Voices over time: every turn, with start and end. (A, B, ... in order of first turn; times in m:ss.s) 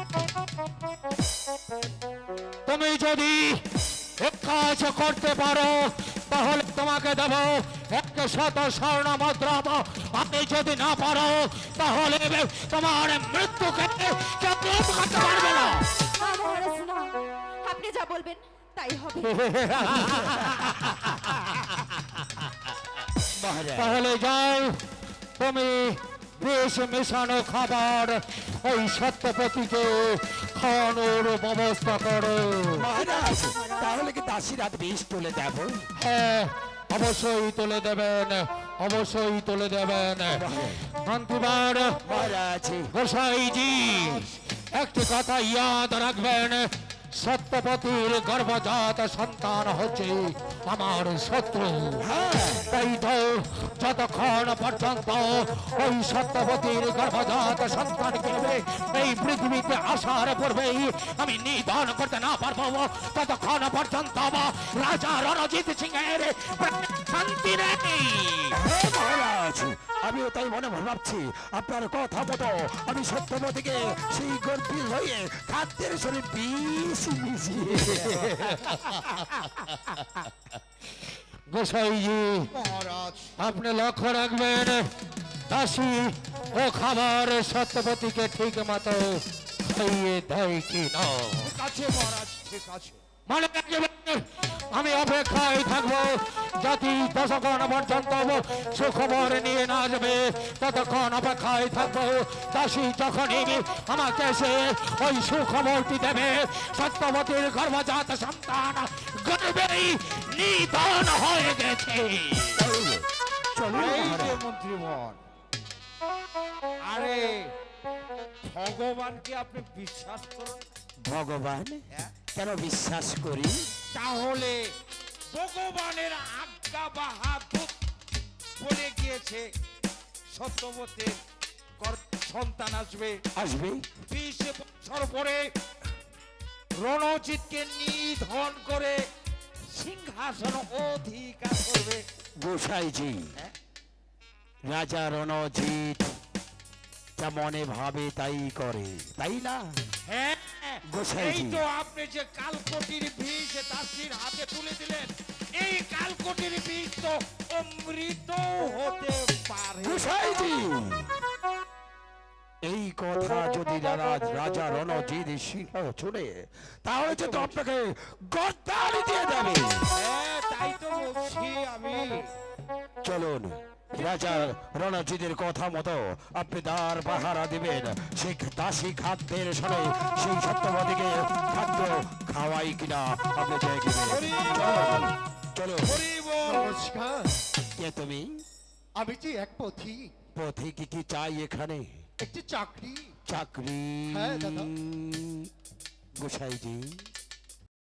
0:02.7-0:03.6 A
0:04.2-0:15.9 A
0:15.6-0:20.1 B
0:19.2-0:21.4 A
0:23.4-0:24.0 C
0:23.7-0:24.8 A
0:25.4-0:32.9 A
0:32.8-0:35.9 C
0:33.0-0:33.9 B
0:36.0-0:42.0 A
0:40.3-0:40.8 C
0:42.0-0:42.9 C
0:42.9-0:52.1 A
0:52.0-0:52.7 C
0:52.6-1:08.6 A
1:08.6-1:18.2 C
1:17.9-1:18.7 D
1:18.1-1:18.8 A
1:21.5-1:22.5 A
1:22.5-1:23.3 D
1:23.4-1:24.9 A
1:25.5-1:31.5 A
1:31.4-1:33.0 D
1:33.3-1:52.7 A
1:52.6-1:54.4 C
1:53.7-1:55.2 D
1:56.8-1:57.5 D
1:58.4-2:00.7 D
2:01.0-2:03.7 C
2:03.9-2:04.8 D
2:05.3-2:07.8 D
2:08.6-2:09.5 D
2:10.3-2:11.2 D
2:11.8-2:13.2 D
2:13.4-2:13.9 C
2:14.1-2:15.5 D
2:16.8-2:19.0 D
2:19.7-2:22.0 D
2:22.4-2:23.4 C
2:24.7-2:26.2 C
2:27.2-2:29.8 C
2:30.0-2:40.4 D
2:30.8-2:31.6 C
2:39.8-2:41.2 C
2:42.6-2:49.9 C
2:47.0-2:47.6 D
2:49.9-2:52.3 D
2:53.0-3:06.0 C
2:53.9-2:54.5 D
3:04.0-3:05.2 D
3:05.8-3:06.8 D
3:06.4-3:07.4 E
3:07.8-3:08.4 C
3:09.0-3:10.1 E
3:10.4-3:12.0 C
3:12.2-3:13.1 E
3:13.3-3:15.5 C
3:14.1-3:14.7 E
3:16.2-3:17.1 C